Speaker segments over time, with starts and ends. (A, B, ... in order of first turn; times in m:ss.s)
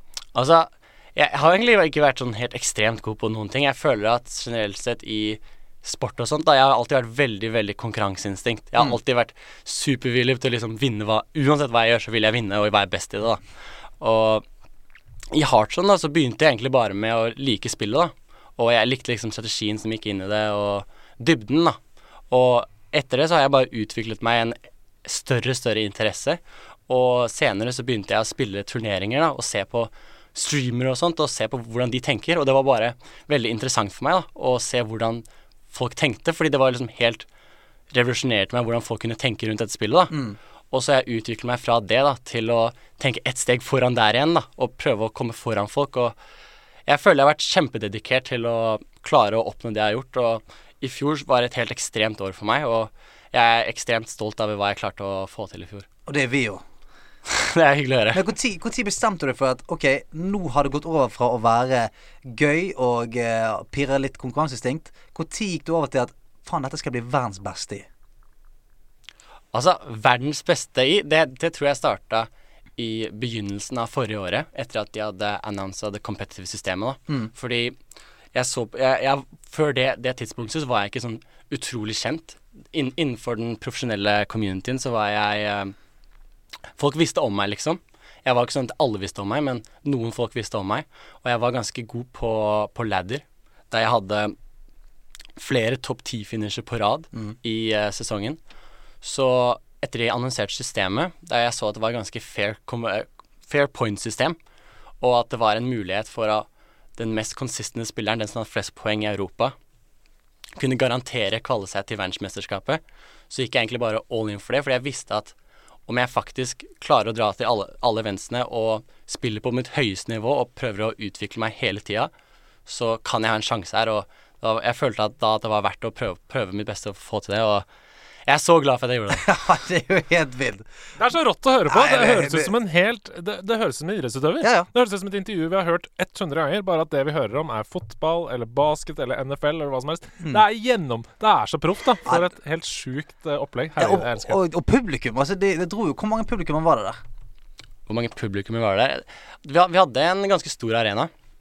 0:00.4-0:13.4 A
0:14.0-0:14.4 A
0:15.3-0:21.8 A
0:22.3-0:37.3 A
0:37.9-0:46.2 A
0:40.1-0:40.4 B
0:46.9-0:55.9 A
0:56.1-0:56.6 B
0:57.3-0:58.2 A
0:58.1-1:07.9 B
1:09.5-1:17.8 A
1:18.3-1:25.8 A
1:26.8-1:34.4 A
1:35.4-1:38.4 A
1:39.0-1:44.4 A
1:45.0-1:46.5 A
1:47.0-1:49.6 A
1:50.6-1:55.4 A
1:55.9-2:02.1 A
2:02.7-2:07.6 A
2:08.3-2:09.3 A
2:09.1-2:10.7 B
2:11.0-2:24.4 C
2:11.7-2:12.5 B
2:14.4-2:14.7 B
2:23.8-2:27.0 B
2:27.9-2:31.1 A